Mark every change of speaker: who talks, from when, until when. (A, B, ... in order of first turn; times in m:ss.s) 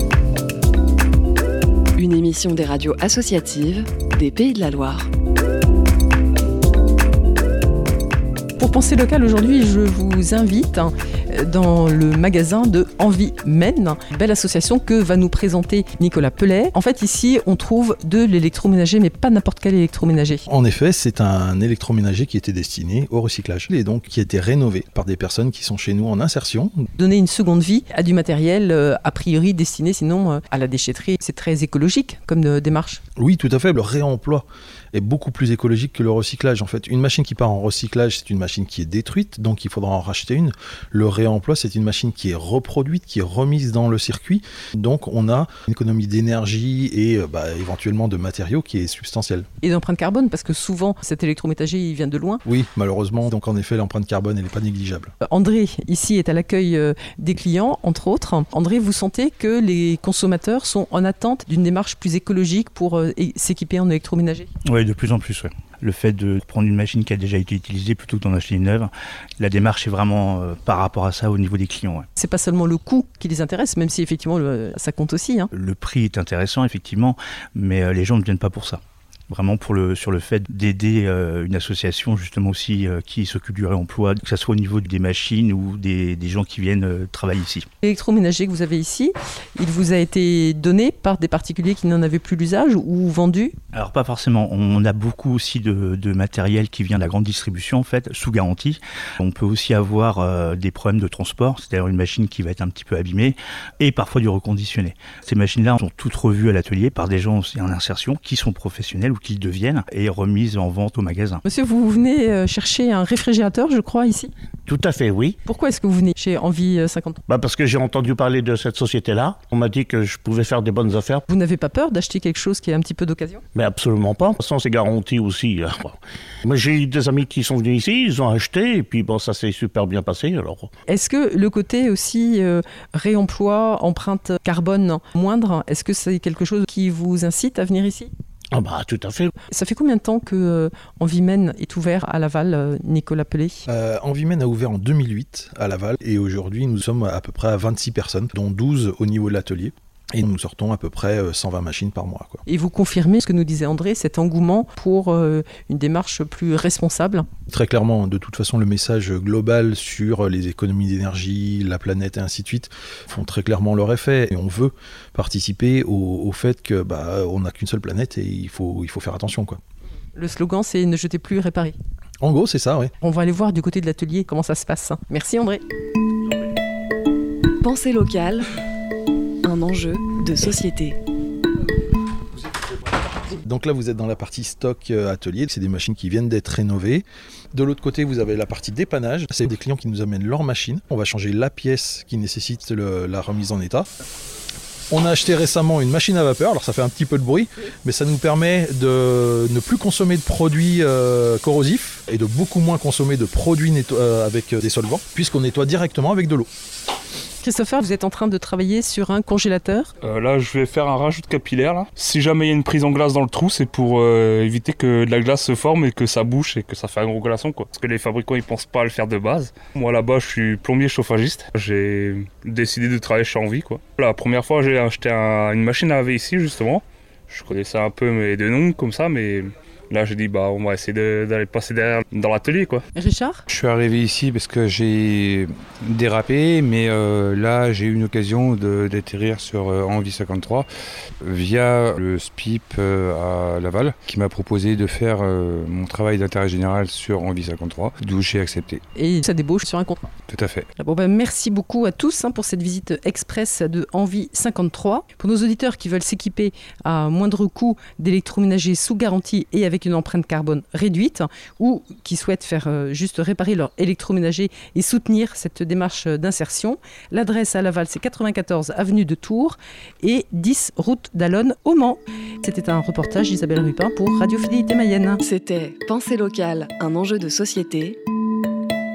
0:02.0-0:05.1 A
0:08.6-0:20.4 B
0:20.5-0:26.9 C
0:27.0-0:33.0 B
0:33.2-0:49.5 C
0:49.6-0:52.4 B
0:52.4-0:55.1 C
0:55.2-1:04.5 B
1:04.7-1:12.1 D
1:12.2-1:15.5 B
1:15.5-1:27.7 D
1:27.8-1:33.6 B
1:33.7-1:51.4 D
1:51.4-1:54.3 B
1:54.7-1:55.4 E
1:55.5-1:57.2 B
1:57.3-2:01.2 E
2:01.3-2:03.4 B
2:03.6-2:10.7 E
2:10.9-2:18.1 B
2:18.5-2:19.3 E
2:19.5-2:23.6 B
2:23.7-2:32.4 C
2:32.5-2:37.3 B
2:37.5-2:49.6 C
2:50.2-2:51.8 B
2:52.2-2:52.9 C
2:53.0-2:55.6 B
2:57.6-2:58.5 A
2:59.4-3:01.0 A
3:03.4-3:13.9 C
3:14.9-3:26.5 C
3:27.4-3:29.9 B
3:30.0-3:52.8 F
3:52.9-3:53.4 B
3:53.5-4:00.7 G
4:01.2-4:08.8 G
4:09.0-4:10.1 B
4:10.3-4:10.7 G
4:10.8-4:35.2 B
4:35.2-4:38.0 A